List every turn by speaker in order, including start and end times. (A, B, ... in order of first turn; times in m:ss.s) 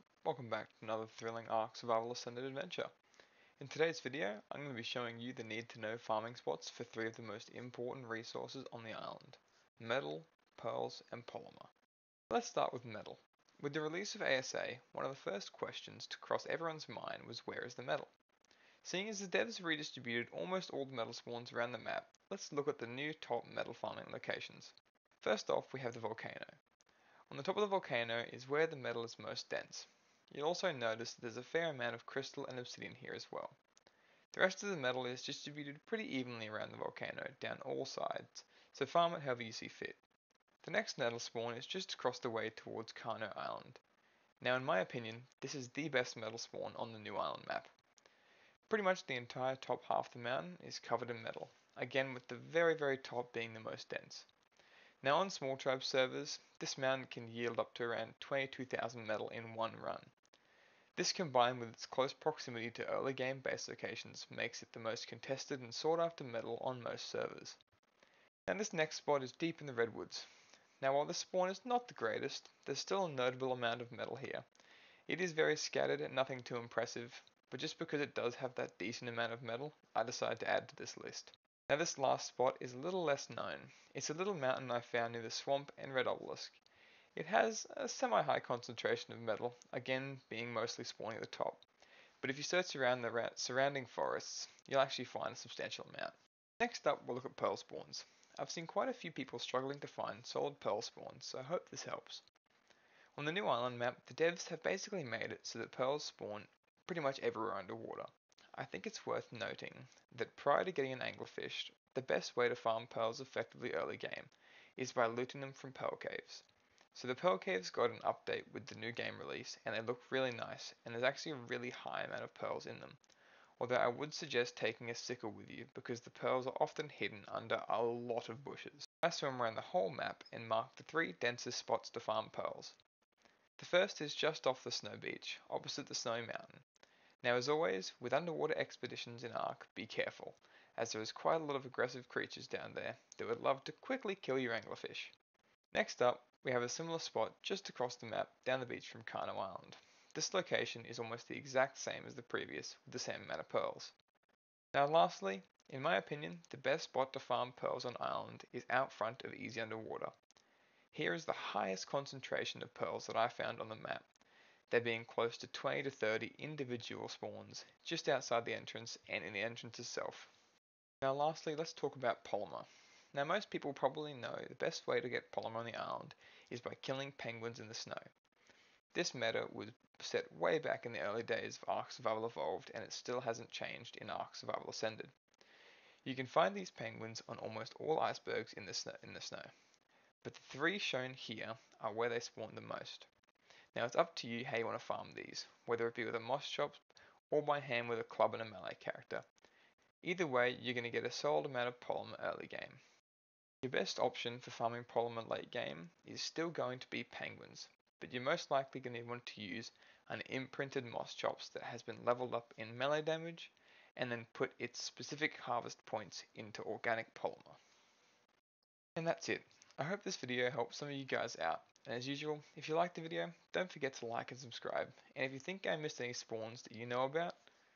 0:00.2-0:02.9 A
0:03.6-0:11.7 A
0:12.3-0:18.1 A
0:18.8-0:26.6 A
0:27.3-0:33.6 A
0:34.3-0:40.0 A
0:40.6-0:43.8 A
0:44.4-0:47.7 A
0:48.7-0:54.3 A
0:55.0-1:00.1 A
1:01.0-1:07.6 A
1:08.5-1:10.3 A
1:10.8-1:14.4 A
1:15.1-1:26.6 A
1:27.2-1:31.6 A
1:32.2-1:42.2 A
1:43.2-2:03.0 A
2:03.6-2:12.8 A
2:13.6-2:16.6 A
2:17.2-2:25.1 A
2:25.7-2:33.9 A
2:34.7-2:40.1 A
2:40.9-2:44.1 A
2:44.7-2:50.3 A
2:51.0-2:58.1 A
2:58.9-3:05.1 A
3:06.0-3:09.5 A
3:10.2-3:13.1 A
3:13.7-3:19.2 A
3:20.0-3:22.8 A
3:23.6-3:37.6 A
3:39.0-3:47.4 A